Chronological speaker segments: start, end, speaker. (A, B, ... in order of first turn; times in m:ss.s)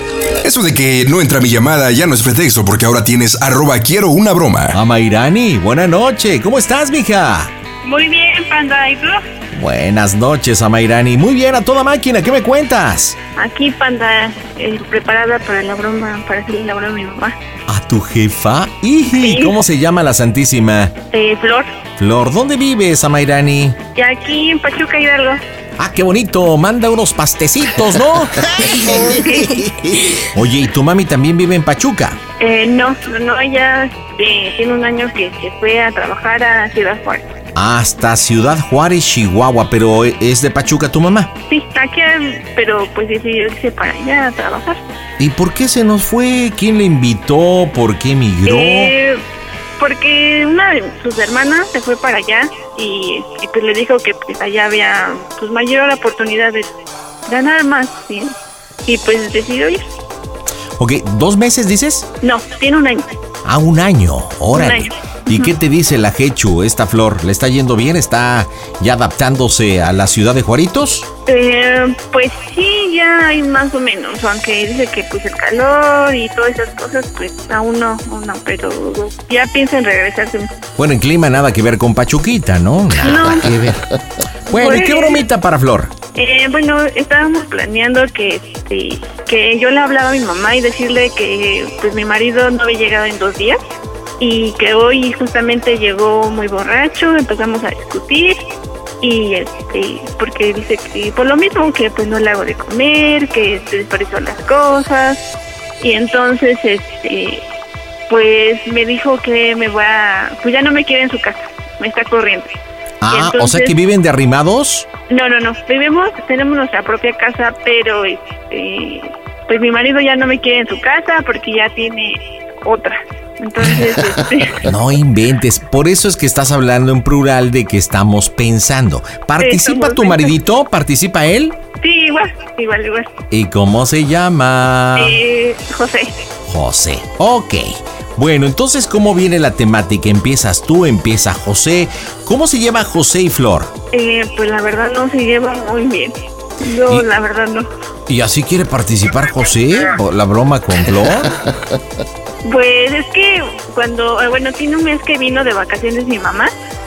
0:00.4-0:04.8 A
0:04.7-0:07.5 B
0:07.8-0:09.2 C
0:09.5-0:13.2 B
0:13.4-0:17.3 C
0:17.7-0:20.9 B
0:19.2-0:19.6 C
0:21.1-0:21.7 C
0:22.0-0:23.8 B
0:24.0-0:25.4 C
0:25.8-0:32.2 B
0:29.1-0:29.5 C
0:32.4-0:37.2 C
0:37.5-0:41.3 B
0:41.5-0:44.8 C
0:45.2-0:48.9 B
0:48.4-0:49.2 C
0:49.8-0:56.6 C
0:57.3-0:58.3 C
0:58.8-0:59.8 C
1:00.8-1:02.1 B
1:02.2-1:03.0 C
1:03.4-1:11.0 B
1:04.5-1:05.5 C
1:11.3-1:20.5 C
1:20.8-1:23.9 B
1:23.0-1:23.6 C
1:24.5-1:25.9 B
1:24.5-1:25.2 C
1:26.1-1:33.6 C
1:34.2-1:38.4 C
1:39.0-1:45.2 C
1:45.8-1:47.4 C
1:48.1-1:52.5 C
1:53.0-1:54.8 B
1:53.1-1:53.7 C
1:55.1-2:04.7 C
2:04.6-2:11.6 B
2:09.4-2:10.3 C
2:11.8-2:13.1 C
2:13.3-2:15.2 B
2:15.0-2:16.1 C
2:16.5-2:23.7 B
2:23.9-2:27.7 C
2:28.1-2:31.3 B
2:32.4-2:36.5 C